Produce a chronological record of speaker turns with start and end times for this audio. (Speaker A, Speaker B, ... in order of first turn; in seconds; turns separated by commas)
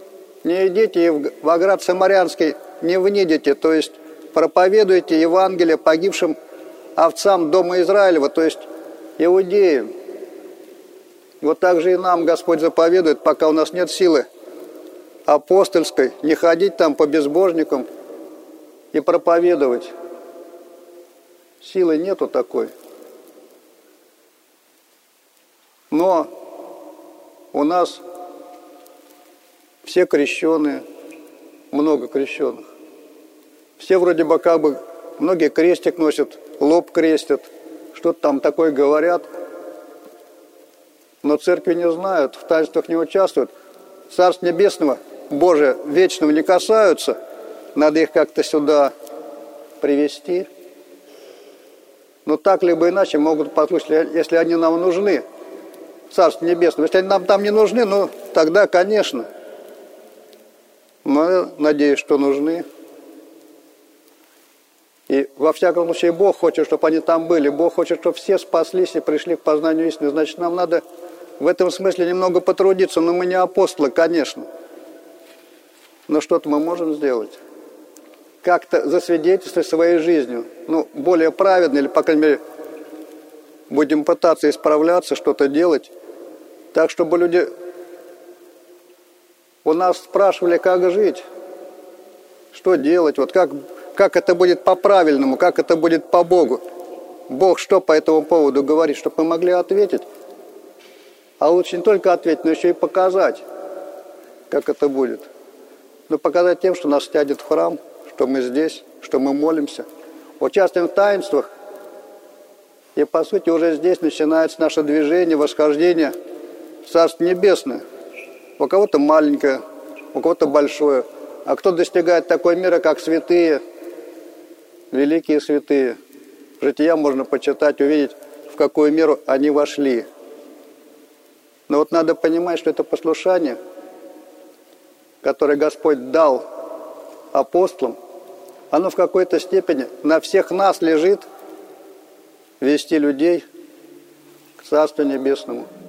Speaker A: 0.4-6.3, Speaker A: 7.0-8.7, Speaker A: 9.2-9.9, Speaker A: 11.4-14.2, Speaker A: 15.3-17.9, Speaker A: 18.9-19.9, Speaker A: 21.6-22.7, Speaker A: 25.9-26.3, Speaker A: 27.5-28.0, Speaker A: 29.8-30.8, Speaker A: 31.7-32.7, Speaker A: 33.8-39.3, Speaker A: 41.2-43.5, Speaker A: 44.1-47.2, Speaker A: 47.8-48.9, Speaker A: 49.8-50.5, Speaker A: 52.2-55.2, Speaker A: 56.1-59.3, Speaker A: 61.0-62.6, Speaker A: 65.1-70.8, Speaker A: 71.4-74.5, Speaker A: 76.1-77.4, Speaker A: 78.4-82.4, Speaker A: 83.7-85.9, Speaker A: 86.7-87.5, Speaker A: 89.7-91.2, Speaker A: 92.5-96.6, Speaker A: 97.3-100.1, Speaker A: 101.4-103.4, Speaker A: 104.5-105.3, Speaker A: 106.1-109.9, Speaker A: 110.4-111.5, Speaker A: 113.0-116.1, Speaker A: 116.8-117.8, Speaker A: 118.6-119.6, Speaker A: 120.1-123.6, Speaker A: 124.9-126.0, Speaker A: 126.6-130.1, Speaker A: 131.7-133.6, Speaker A: 135.2-136.5, Speaker A: 137.3-138.0, Speaker A: 138.7-141.3, Speaker A: 142.6-143.4, Speaker A: 144.6-145.7